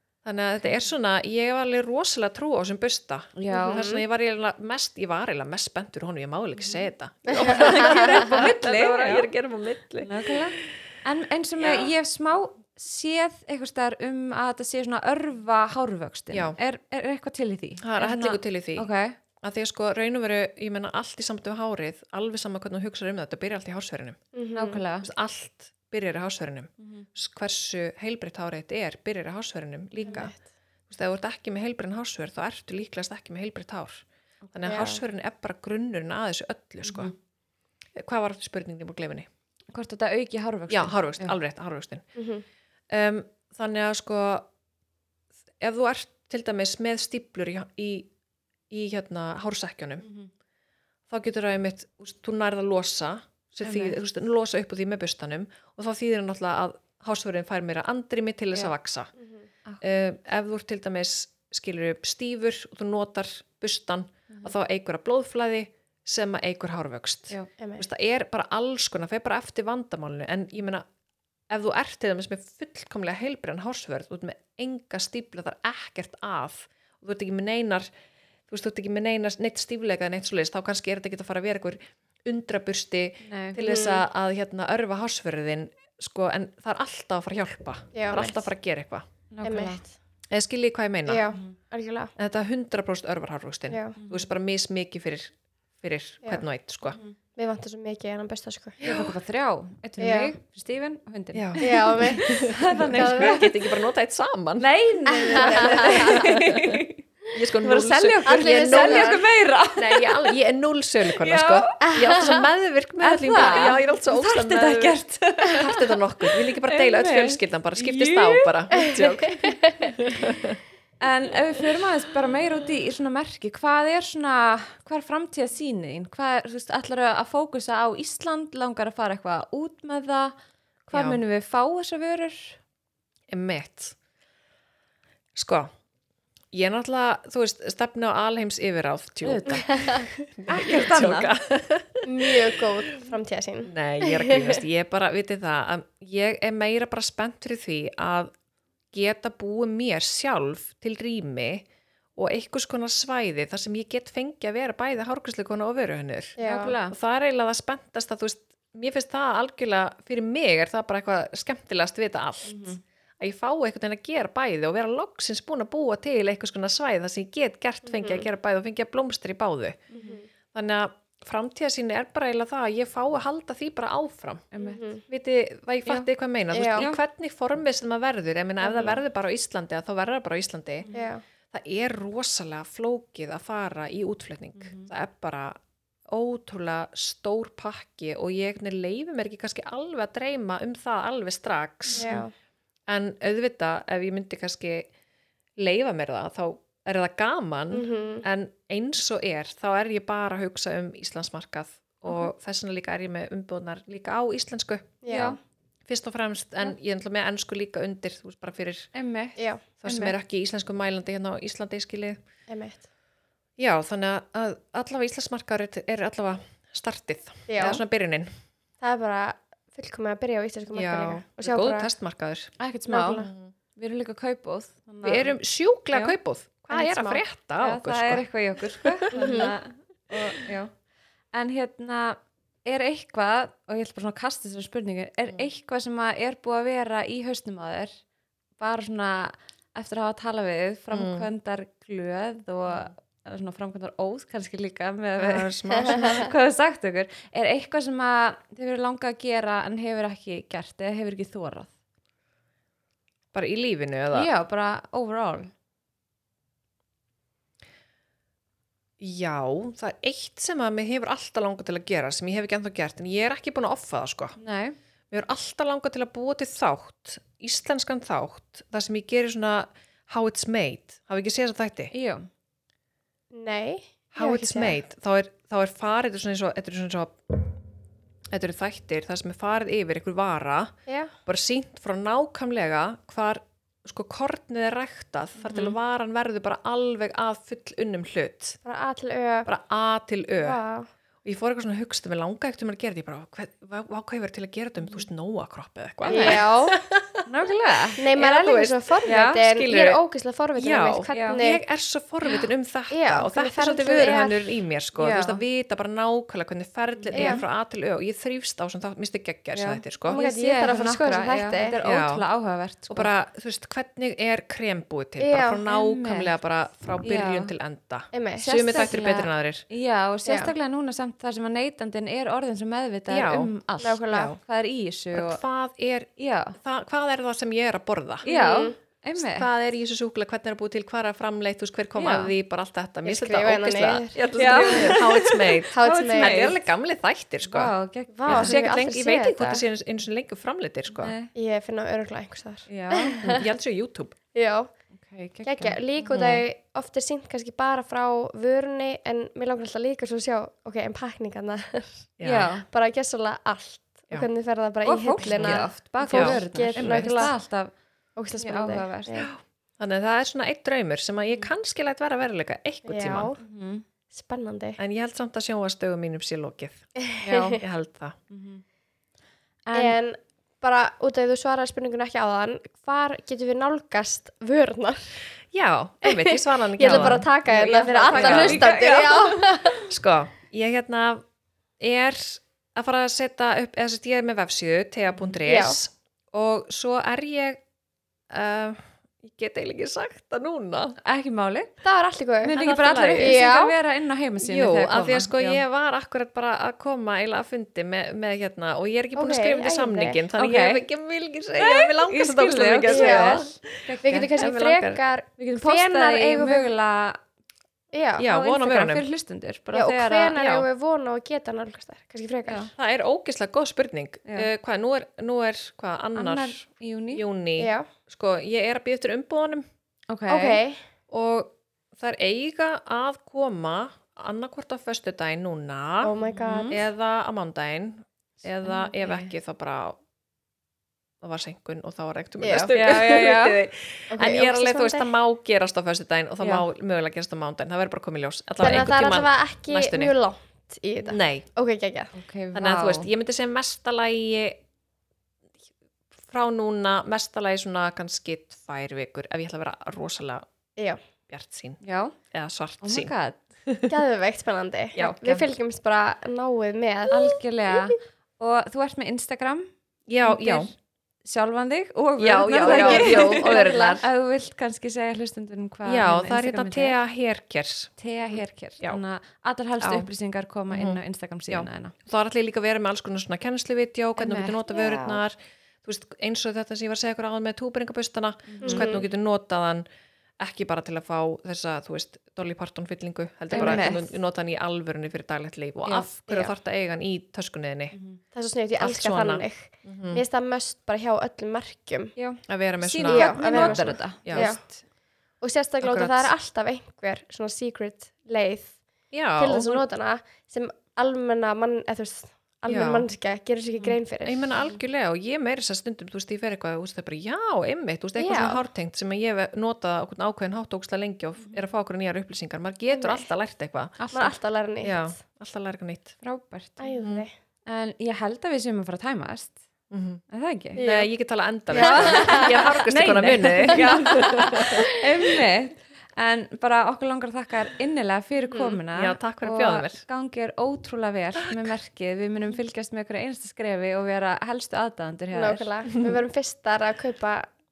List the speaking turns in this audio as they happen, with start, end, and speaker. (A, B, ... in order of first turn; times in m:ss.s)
0:00.2-0:10.6 A
0:03.4-0:03.9 B
0:03.5-0:04.0 C
0:06.6-0:06.8 B
0:07.3-0:08.1 C
0:07.4-0:09.3 B
0:10.0-0:19.2 B
0:11.6-0:11.9 A
0:16.3-0:16.6 A
0:17.8-0:18.9 A
0:19.4-0:24.2 A
0:24.3-0:24.8 C
0:24.5-0:25.1 B
0:25.0-0:30.3 A
0:26.8-0:27.0 B
0:30.0-0:30.4 C
0:30.9-0:37.1 A
0:34.6-0:35.0 C
0:36.8-0:37.1 B
0:38.0-0:39.3 A
0:39.7-0:41.4 B
0:40.7-0:42.0 A
0:42.2-0:42.4 C
0:42.9-0:44.5 A
0:45.6-0:48.1 A
0:48.7-0:50.1 A
0:50.0-0:50.3 B
0:51.1-0:59.1 A
0:53.6-0:54.0 B
0:58.6-0:59.4 C
0:59.8-1:10.8 A
1:11.5-1:17.9 A
1:18.5-1:29.1 A
1:23.2-1:23.6 B
1:23.6-1:24.0 C
1:27.9-1:28.5 C
1:29.3-1:29.8 B
1:29.4-1:29.9 C
1:30.3-1:31.3 A
1:31.0-1:32.1 C
1:32.2-1:37.0 A
1:33.7-1:34.0 C
1:34.0-1:34.3 B
1:37.4-1:38.8 C
1:38.8-1:39.2 A
1:38.8-1:43.5 B
1:40.0-1:40.3 C
1:41.3-1:44.7 A
1:41.6-1:42.4 C
1:42.9-1:43.5 C
1:44.6-1:47.0 B
1:45.1-1:46.2 C
1:45.2-2:00.6 A
1:47.6-1:50.3 B
1:48.2-1:49.2 C
1:51.0-1:52.2 B
1:51.8-1:52.4 C
1:53.0-1:55.9 B
1:56.6-1:59.6 B
1:59.4-2:00.0 C
2:01.0-2:10.3 B
2:10.9-2:12.6 B
2:10.9-2:11.2 A
2:13.3-2:14.0 A
2:15.3-2:15.7 A
2:16.5-2:23.0 A
2:19.2-2:19.9 B
2:19.5-2:20.1 C
2:20.5-2:21.3 B
2:22.0-2:24.6 C
2:23.6-2:28.3 A
2:28.9-2:31.6 A
2:32.2-2:49.8 A
2:36.4-2:36.7 C
2:36.4-2:36.9 B
2:42.5-2:42.8 B
2:47.9-2:48.2 C
2:49.9-2:50.3 C
2:49.9-2:50.2 B
2:50.5-2:54.4 A
2:54.5-2:54.8 B
2:54.6-2:55.0 C
2:55.1-3:00.9 A
2:56.5-2:56.9 C
2:58.6-2:59.0 C
3:00.8-3:01.1 B
3:00.9-3:01.2 C
3:01.5-3:05.6 A
3:04.6-3:04.9 B
3:06.1-3:12.1 A
3:11.9-3:12.3 B
3:11.9-3:12.3 C
3:12.9-3:14.9 A
3:15.6-3:25.0 A
3:17.7-3:18.2 C
3:25.0-3:25.4 C
3:25.1-3:25.4 B
3:25.9-3:28.9 A
3:28.9-3:30.2 B
3:29.4-3:29.6 C
3:29.8-3:32.2 A
3:32.5-3:32.8 C
3:33.6-3:38.3 A
3:37.5-3:37.8 C
3:38.8-3:41.9 C
3:40.7-3:42.5 A
3:42.6-3:45.4 B
3:42.9-3:43.3 C
3:43.2-3:43.5 A
3:45.0-3:49.5 A
3:46.7-3:47.2 C
3:47.6-3:50.7 B
3:49.1-3:49.5 C
3:51.3-3:57.9 B
3:58.6-4:11.7 B
4:00.9-4:01.3 A
4:05.2-4:06.3 A
4:13.3-4:14.3 A
4:14.1-4:15.5 B
4:19.0-4:24.4 A
4:24.4-4:24.8 B
4:25.1-4:31.9 A
4:31.9-4:32.3 B
4:33.3-4:34.8 C
4:34.1-4:37.5 A
4:38.3-4:48.6 A
4:40.9-4:41.1 C
4:45.4-4:45.8 B
4:48.6-4:49.5 C
4:49.4-4:50.6 A
4:50.4-4:50.9 C
4:51.2-4:57.2 A
4:56.0-4:56.4 B
4:56.1-4:56.8 C
4:57.2-4:58.0 B
4:58.0-5:01.6 C
4:58.0-5:00.0 A
4:59.0-4:59.4 B
5:00.6-5:10.2 A
5:01.1-5:01.4 B
5:02.9-5:04.6 C
5:05.0-5:05.4 B
5:07.0-5:07.4 B
5:07.1-5:07.4 C
5:09.5-5:13.1 B
5:10.1-5:11.8 C
5:11.8-5:12.2 A
5:12.9-5:19.6 A
5:15.2-5:15.6 C
5:15.7-5:16.3 B
5:17.0-5:17.5 B
5:18.1-5:18.5 C
5:18.4-5:25.4 B
5:20.2-5:20.5 C
5:23.1-5:23.5 A
5:23.8-5:24.3 C
5:24.1-5:24.4 A
5:25.1-5:28.2 A
5:26.2-5:26.6 B
5:28.2-5:28.8 C
5:28.2-5:29.5 B
5:29.2-5:37.7 A
5:32.0-5:32.3 B
5:33.0-5:34.9 C
5:34.3-5:36.6 B
5:35.7-5:36.5 C
5:37.4-5:38.6 B
5:38.1-5:39.6 C
5:38.3-5:41.1 A
5:41.0-5:41.3 B
5:41.3-5:43.4 C
5:42.7-5:43.2 B
5:43.2-5:44.2 A
5:44.3-5:44.7 C
5:44.9-5:45.8 B
5:45.4-5:52.1 C
5:46.0-5:46.4 A
5:52.2-5:52.5 A
5:52.2-5:52.6 B
5:52.7-5:57.4 C
5:54.8-5:57.7 B
5:55.2-5:57.3 A
5:58.2-5:59.3 C
5:58.4-5:59.2 B
5:59.2-6:03.3 A
6:02.8-6:03.4 C
6:03.4-6:03.8 B
6:04.1-6:04.8 C
6:04.8-6:06.9 A
6:07.1-6:07.6 C
6:07.2-6:07.6 B
6:07.6-6:08.2 A
6:08.3-6:08.6 B
6:09.6-6:10.0 B
6:09.7-6:15.2 C
6:15.5-6:17.3 A
6:16.0-6:19.8 C
6:16.8-6:19.8 B
6:17.9-6:18.6 A
6:19.9-6:21.2 A
6:21.8-6:27.6 A
6:25.4-6:25.8 C
6:28.3-6:31.0 A
6:31.0-6:31.7 B
6:31.8-6:32.6 C
6:32.4-6:35.6 B
6:32.5-6:33.4 A
6:33.2-6:33.7 C
6:34.4-6:45.0 A
6:39.1-6:40.2 C
6:40.4-6:40.8 B
6:41.6-6:44.7 B
6:42.9-6:43.4 C
6:44.0-6:46.7 C
6:45.4-6:47.2 B
6:47.9-6:48.2 C
6:48.2-6:49.1 A
6:48.2-6:50.4 B
6:49.7-6:52.7 C
6:50.3-6:50.6 A
6:52.5-6:52.7 B
6:52.8-6:59.6 A
6:56.1-6:57.2 B
6:57.6-6:57.9 C
7:00.1-7:00.6 B
7:00.3-7:00.8 C
7:01.1-7:06.1 A
7:06.0-7:06.8 C
7:06.3-7:06.8 B
7:06.7-7:10.0 A
7:08.6-7:09.3 B
7:11.2-7:20.1 A
7:12.4-7:12.7 C
7:12.7-7:13.6 B
7:14.1-7:15.1 C
7:16.4-7:16.6 B
7:18.6-7:22.1 C
7:21.0-7:21.5 A
7:22.1-7:23.1 B
7:22.5-7:24.6 A
7:26.3-7:30.4 A
7:31.3-7:31.8 A
7:31.8-7:32.2 B
7:32.3-7:33.1 A
7:32.8-7:33.4 B
7:33.9-7:37.3 C
7:35.0-7:35.4 B
7:37.1-7:39.7 B
7:40.1-7:40.7 A
7:40.2-7:46.9 B
7:42.2-7:44.0 A
7:42.6-7:44.0 C
7:45.8-7:49.0 A
7:48.0-7:51.9 B
7:49.8-7:50.1 A
7:50.7-7:59.8 A
7:54.2-7:54.6 B
7:54.7-7:55.2 C
7:58.5-7:58.9 B
7:58.6-7:59.0 C
8:00.4-8:08.0 A
8:03.5-8:03.9 C
8:03.5-8:04.1 B
8:07.9-8:08.2 B
8:08.3-8:12.1 C
8:08.8-8:10.2 A
8:12.2-8:14.8 B
8:12.5-8:14.5 A
8:13.1-8:14.6 C
8:15.4-8:18.8 C
8:15.8-8:16.3 A
8:19.1-8:19.8 A
8:19.4-8:24.5 C
8:22.7-8:23.1 A
8:24.2-8:34.0 A
8:28.2-8:28.6 C
8:32.9-8:33.3 C
8:34.0-8:34.3 B
8:34.1-8:35.1 C
8:34.8-8:36.2 A
8:36.2-8:37.0 B
8:36.8-8:37.3 C
8:37.6-8:39.6 B
8:39.9-8:40.2 A
8:40.3-8:40.8 B
8:40.8-8:41.1 C
8:40.8-8:44.9 A
8:41.7-8:55.7 B
8:41.7-8:42.7 C
8:43.7-8:44.9 C
8:48.5-8:48.8 C
8:48.9-8:50.0 A
8:55.3-8:57.5 C